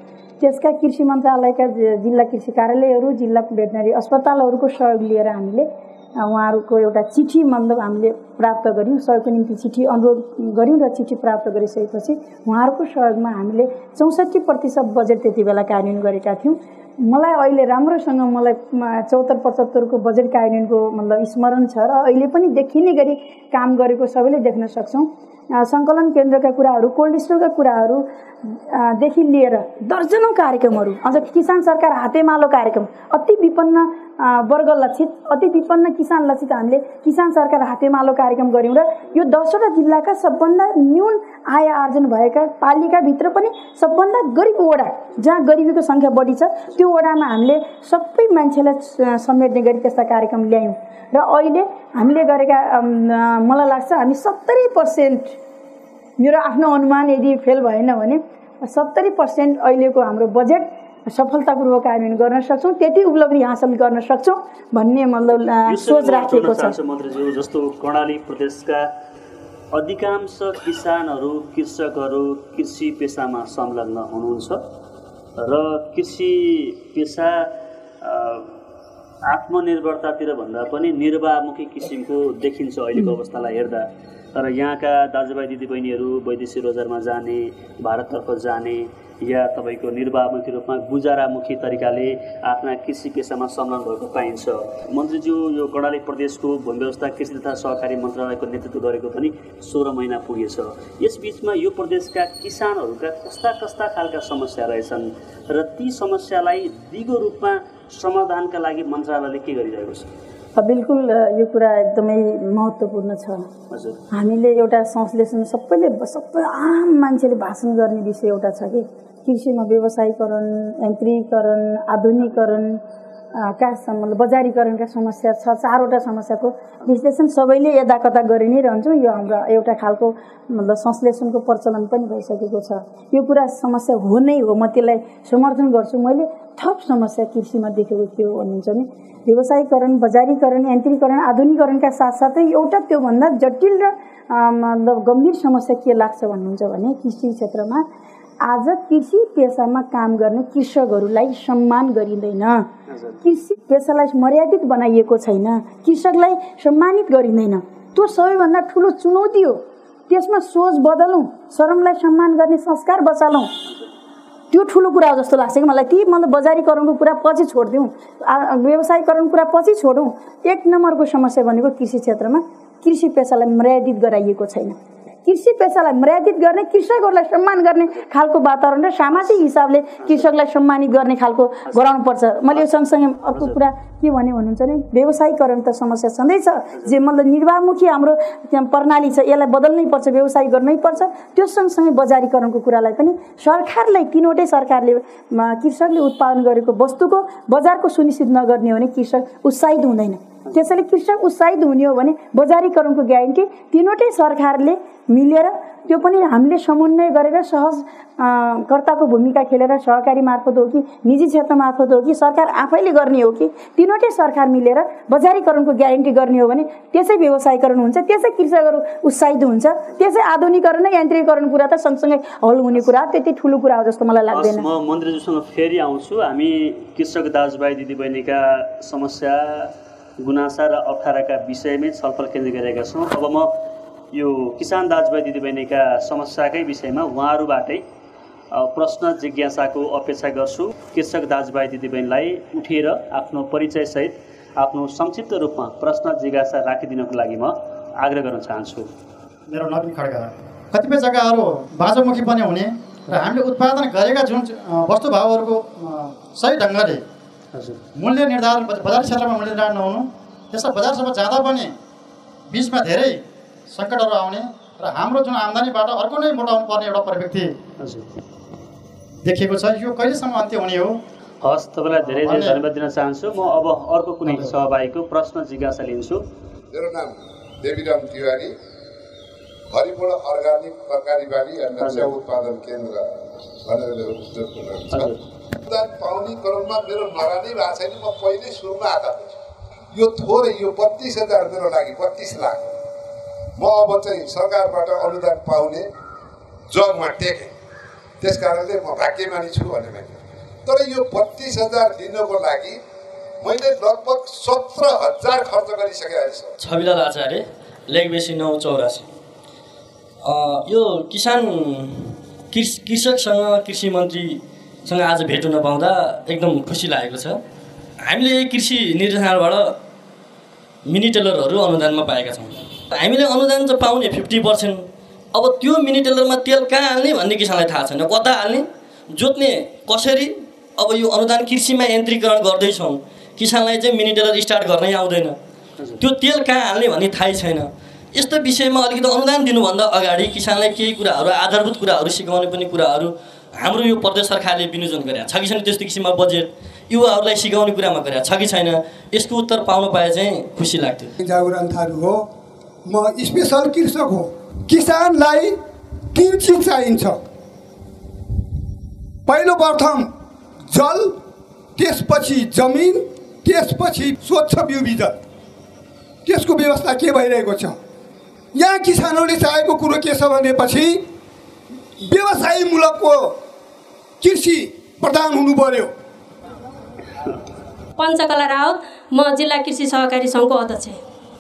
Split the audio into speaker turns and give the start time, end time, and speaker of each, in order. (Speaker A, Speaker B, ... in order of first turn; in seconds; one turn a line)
Speaker A: 0.4-55.4
Speaker A: 56.2-66.8
Speaker B: 65.7-68.9
Speaker B: 69.7-74.7
Speaker B: 75.4-77.5
Speaker B: 78.0-78.5
Speaker B: 79.3-110.1
Speaker A: 110.5-113.5
Speaker B: 113.7-114.0
Speaker A: 114.1-122.8
Speaker A: 123.3-147.8
Speaker A: 148.4-152.7
Speaker B: 152.9-153.2
Speaker A: 153.2-163.5
Speaker A: 164.5-224.7
Speaker B: 180.0-180.3
Speaker B: 183.3-183.6
Speaker B: 224.3-233.6
Speaker B: 234.1-237.8
Speaker B: 238.5-248.9
Speaker C: 249.5-257.0
Speaker B: 257.5-257.8
Speaker C: 258.0-261.8
Speaker C: 262.5-267.6
Speaker B: 267.8-268.1
Speaker C: 269.2-271.0
Speaker B: 271.4-276.2
Speaker C: 272.1-272.6
Speaker D: 276.7-278.5
Speaker D: 279.7-283.1
Speaker B: 281.8-282.1
Speaker D: 283.7-289.3
Speaker B: 284.9-285.2
Speaker D: 289.9-292.7
Speaker D: 293.6-295.9
Speaker D: 296.7-297.5
Speaker D: 298.2-302.8
Speaker D: 303.4-306.5
Speaker E: 306.6-309.1
Speaker E: 310.2-317.4
Speaker E: 318.1-319.8
Speaker E: 320.9-335.4
Speaker E: 336.0-351.1
Speaker F: 351.2-352.3
Speaker F: 352.9-355.6
Speaker F: 356.1-357.2
Speaker F: 359.3-360.1
Speaker F: 360.7-361.2
Speaker F: 361.8-365.2
Speaker F: 366.2-367.8
Speaker F: 368.5-371.1
Speaker F: 372.0-373.4
Speaker F: 374.2-375.9
Speaker G: 378.0-381.0